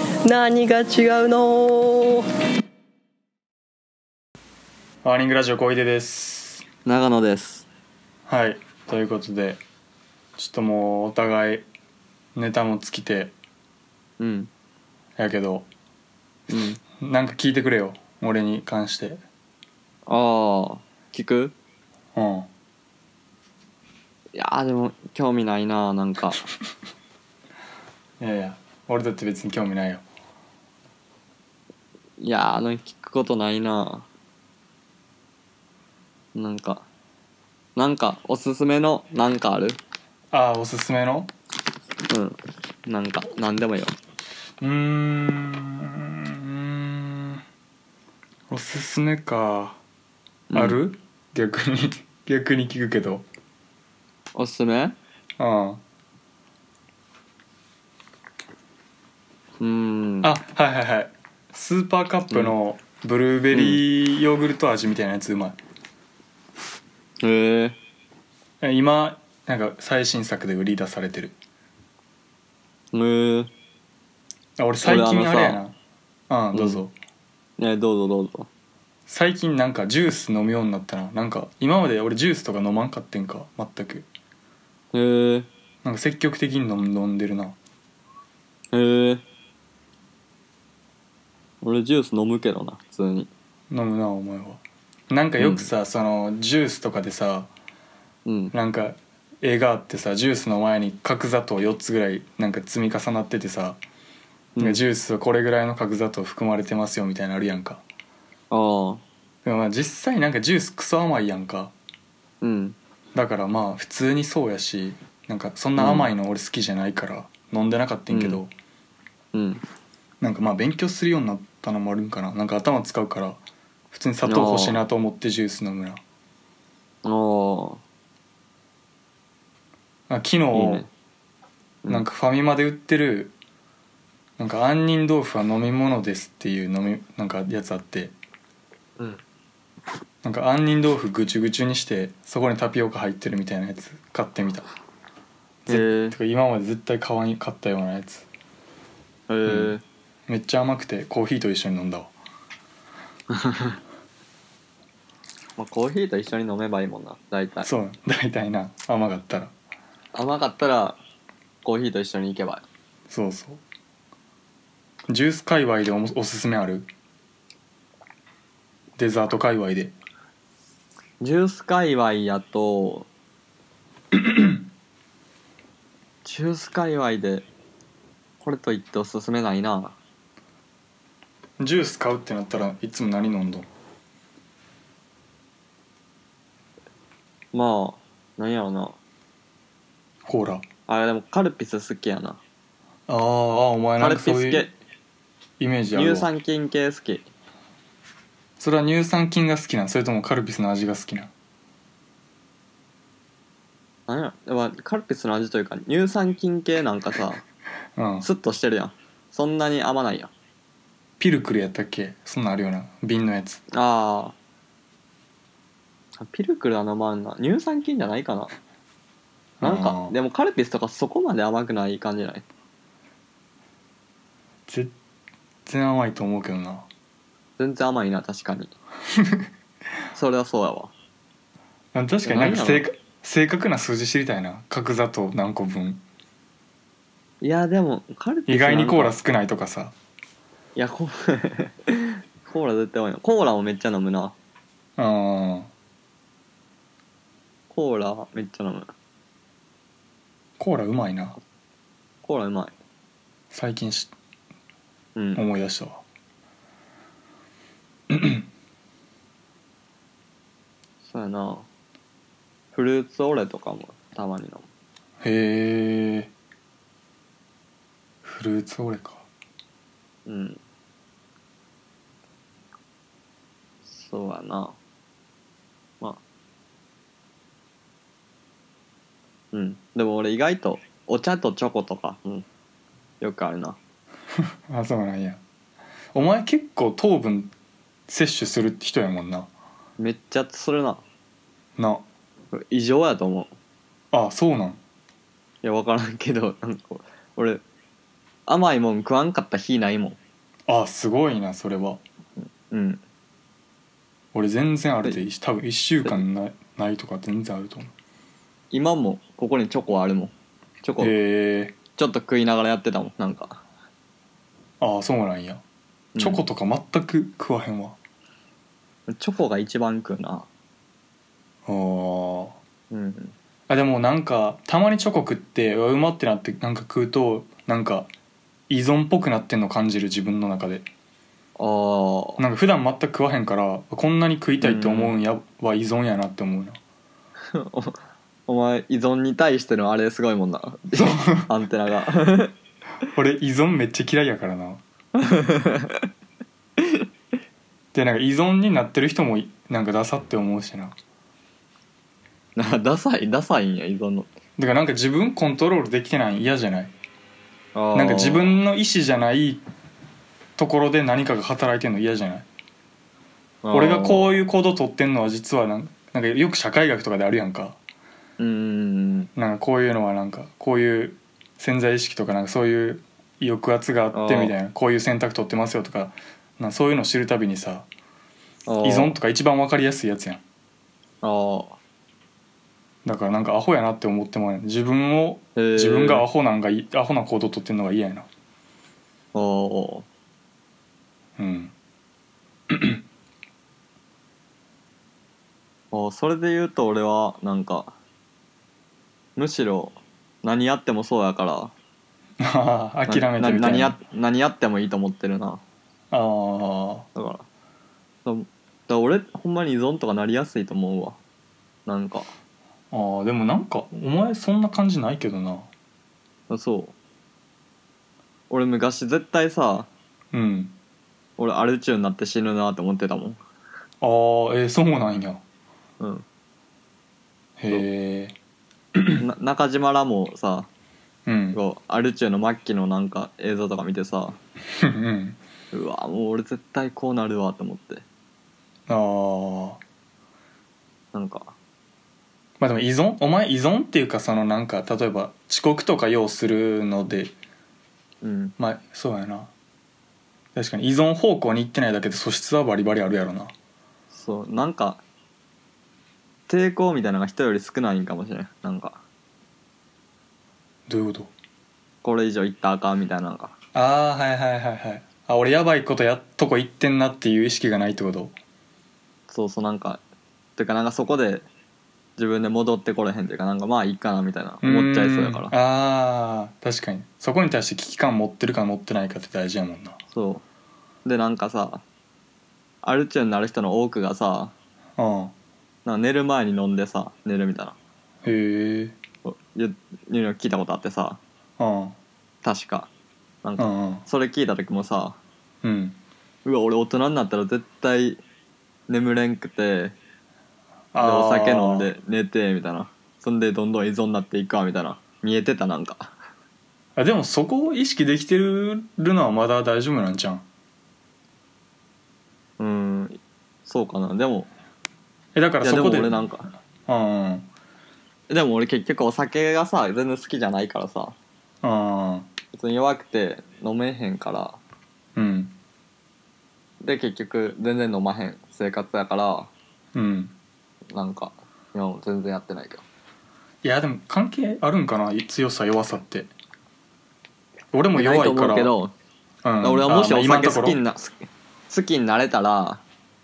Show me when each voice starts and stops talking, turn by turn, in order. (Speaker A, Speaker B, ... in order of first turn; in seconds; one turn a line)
Speaker A: 0.2-2.3
Speaker B: 5.0-6.7
Speaker C: 6.9-7.7
Speaker B: 8.3-9.6
Speaker B: 10.4-11.7
Speaker B: 12.3-13.3
Speaker C: 14.2-14.5
Speaker B: 15.2-15.7
Speaker C: 16.5-16.8
Speaker B: 17.0-19.2
Speaker C: 20.1-21.6
Speaker B: 22.1-22.5
Speaker C: 24.4-26.4
Speaker B: 28.2-30.0
Speaker C: 32.2-34.1
Speaker C: 36.4-36.9
Speaker C: 37.8-39.8
Speaker B: 40.3-41.3
Speaker C: 42.1-43.9
Speaker B: 44.6-47.4
Speaker B: 48.5-49.8
Speaker C: 50.5-50.8
Speaker B: 50.5-53.2
Speaker C: 54.4-55.0
Speaker B: 55.4-55.8
Speaker C: 59.6-60.3
Speaker B: 60.2-65.6
Speaker C: 62.3-62.6
Speaker C: 63.5-63.8
Speaker C: 67.2-67.8
Speaker B: 68.6-71.3
Speaker C: 72.9-73.5
Speaker B: 74.6-75.8
Speaker C: 74.8-75.6
Speaker B: 76.3-76.9
Speaker C: 76.5-76.8
Speaker C: 77.6-78.5
Speaker B: 79.1-84.1
Speaker C: 84.9-85.5
Speaker B: 85.8-87.6
Speaker C: 88.7-89.2
Speaker C: 91.6-93.3
Speaker B: 93.7-97.5
Speaker C: 95.4-95.7
Speaker C: 98.3-98.5
Speaker B: 98.5-103.8
Speaker C: 104.6-104.8
Speaker B: 104.6-107.8
Speaker C: 108.5-109.0
Speaker B: 109.4-111.7
Speaker C: 112.4-112.8
Speaker B: 113.2-118.5
Speaker C: 115.8-116.1
Speaker C: 118.1-118.4
Speaker C: 119.3-119.6
Speaker B: 120.2-123.4
Speaker B: 123.9-126.0
Speaker C: 124.2-124.8
Speaker C: 127.0-127.8
Speaker B: 130.1-130.8
Speaker C: 130.5-130.9
Speaker B: 131.9-133.3
Speaker B: 134.4-138.1
Speaker B: 140.2-144.7
Speaker B: 145.7-148.3
Speaker C: 145.7-146.2
Speaker C: 149.3-149.8
Speaker B: 149.4-152.1
Speaker C: 153.3-153.7
Speaker C: 155.6-157.7
Speaker B: 157.6-159.5
Speaker C: 160.2-161.0
Speaker C: 161.6-162.7
Speaker B: 163.1-163.6
Speaker B: 165.1-166.9
Speaker B: 169.0-169.9
Speaker C: 171.2-173.1
Speaker B: 174.1-174.6
Speaker C: 176.2-177.5
Speaker C: 178.4-180.0
Speaker B: 181.6-183.7
Speaker C: 187.5-189.0
Speaker B: 190.3-190.7
Speaker C: 190.9-192.4
Speaker B: 193.1-194.7
Speaker C: 194.0-194.8
Speaker B: 195.6-196.3
Speaker C: 195.9-197.3
Speaker B: 198.6-201.3
Speaker C: 204.1-207.4
Speaker B: 208.0-208.3
Speaker C: 208.2-210.3
Speaker B: 211.2-213.6
Speaker C: 213.7-214.3
Speaker C: 216.2-218.5
Speaker B: 219.6-220.1
Speaker C: 219.6-222.4
Speaker B: 224.7-224.9
Speaker B: 225.7-226.9
Speaker C: 227.6-228.7
Speaker C: 230.1-230.9
Speaker B: 231.9-236.0
Speaker C: 232.2-232.9
Speaker C: 237.4-239.2
Speaker B: 238.5-239.9
Speaker C: 240.8-244.4
Speaker B: 245.0-245.7
Speaker C: 247.7-248.9
Speaker B: 250.6-251.4
Speaker C: 252.2-252.7
Speaker B: 253.5-254.1
Speaker C: 255.2-255.4
Speaker B: 255.3-256.0
Speaker B: 258.1-258.4
Speaker C: 261.0-261.7
Speaker C: 262.7-264.7
Speaker B: 265.2-266.3
Speaker B: 268.2-269.3
Speaker C: 270.3-270.6
Speaker C: 273.9-274.8
Speaker C: 279.5-282.4
Speaker C: 283.2-283.8
Speaker B: 284.7-285.4
Speaker B: 286.1-287.5
Speaker B: 288.1-289.5
Speaker C: 290.0-291.0
Speaker B: 291.8-292.1
Speaker C: 292.5-293.5
Speaker B: 294.1-294.8
Speaker C: 295.6-297.6
Speaker C: 298.5-300.2
Speaker B: 300.7-302.0
Speaker C: 302.4-303.0
Speaker B: 304.3-307.9
Speaker C: 308.7-311.2
Speaker B: 311.0-311.8
Speaker C: 312.0-313.6
Speaker B: 314.8-315.6
Speaker C: 316.1-316.4
Speaker B: 316.2-318.0
Speaker C: 319.1-320.5
Speaker B: 321.7-322.6
Speaker C: 322.9-323.4
Speaker B: 323.7-328.1
Speaker B: 328.7-330.9
Speaker C: 331.6-332.4
Speaker B: 332.4-336.8
Speaker C: 334.6-335.2
Speaker C: 337.5-342.5
Speaker B: 341.0-341.5
Speaker B: 343.1-344.8
Speaker C: 345.2-346.1
Speaker B: 347.9-350.9
Speaker C: 352.6-354.3
Speaker B: 354.6-356.9
Speaker C: 357.7-358.6
Speaker B: 357.9-359.6
Speaker B: 360.6-362.5
Speaker C: 363.6-364.4
Speaker B: 363.7-367.8
Speaker C: 368.4-369.3
Speaker B: 369.4-377.9
Speaker C: 374.1-374.6
Speaker C: 378.7-379.2
Speaker B: 378.8-380.4
Speaker C: 381.2-381.8
Speaker B: 383.1-388.3
Speaker C: 385.6-386.3
Speaker C: 389.3-390.1
Speaker B: 391.4-391.7
Speaker B: 392.7-393.0
Speaker C: 395.9-397.9
Speaker C: 399.4-401.7
Speaker B: 402.4-404.0
Speaker C: 403.1-405.6
Speaker B: 406.1-407.1
Speaker C: 407.1-407.5
Speaker C: 408.2-411.2
Speaker C: 411.9-412.3
Speaker B: 412.9-415.7
Speaker C: 416.5-417.0
Speaker C: 418.5-419.9
Speaker B: 420.3-420.8
Speaker C: 421.4-423.4
Speaker B: 424.0-425.4
Speaker C: 426.0-426.3
Speaker B: 427.6-428.4
Speaker B: 429.0-429.2
Speaker C: 429.2-430.7
Speaker B: 431.3-431.6
Speaker C: 431.5-434.4
Speaker B: 434.8-435.4
Speaker C: 435.7-438.1
Speaker B: 438.9-439.8
Speaker C: 441.1-441.6
Speaker B: 442.6-447.3
Speaker C: 448.2-448.6
Speaker B: 448.6-449.5
Speaker B: 450.6-453.5
Speaker C: 454.1-455.0
Speaker C: 456.5-459.0
Speaker B: 460.9-461.3
Speaker C: 462.0-463.5
Speaker B: 463.7-468.4
Speaker C: 469.3-470.0
Speaker C: 470.6-471.5
Speaker C: 472.2-475.6
Speaker B: 474.6-480.0
Speaker C: 480.1-480.4
Speaker C: 481.1-481.8
Speaker C: 482.8-484.5
Speaker B: 485.0-485.3
Speaker C: 485.9-487.8
Speaker B: 488.2-489.0
Speaker C: 489.2-491.2
Speaker B: 491.6-492.0
Speaker C: 492.4-492.9
Speaker C: 493.4-495.2
Speaker B: 493.6-494.1
Speaker B: 495.6-496.0
Speaker C: 496.4-498.2
Speaker C: 498.9-500.0
Speaker B: 500.9-501.9
Speaker C: 501.0-506.1
Speaker B: 507.0-510.4
Speaker C: 512.6-514.5
Speaker B: 515.4-516.2
Speaker C: 515.6-516.5
Speaker B: 516.9-517.5
Speaker C: 518.3-521.2
Speaker B: 521.6-522.3
Speaker C: 522.5-524.6
Speaker B: 525.2-525.5
Speaker C: 526.8-529.5
Speaker B: 530.0-530.3
Speaker C: 530.9-532.8
Speaker B: 533.6-536.3
Speaker B: 537.7-538.7
Speaker C: 538.0-538.9
Speaker B: 539.4-540.8
Speaker C: 539.6-542.8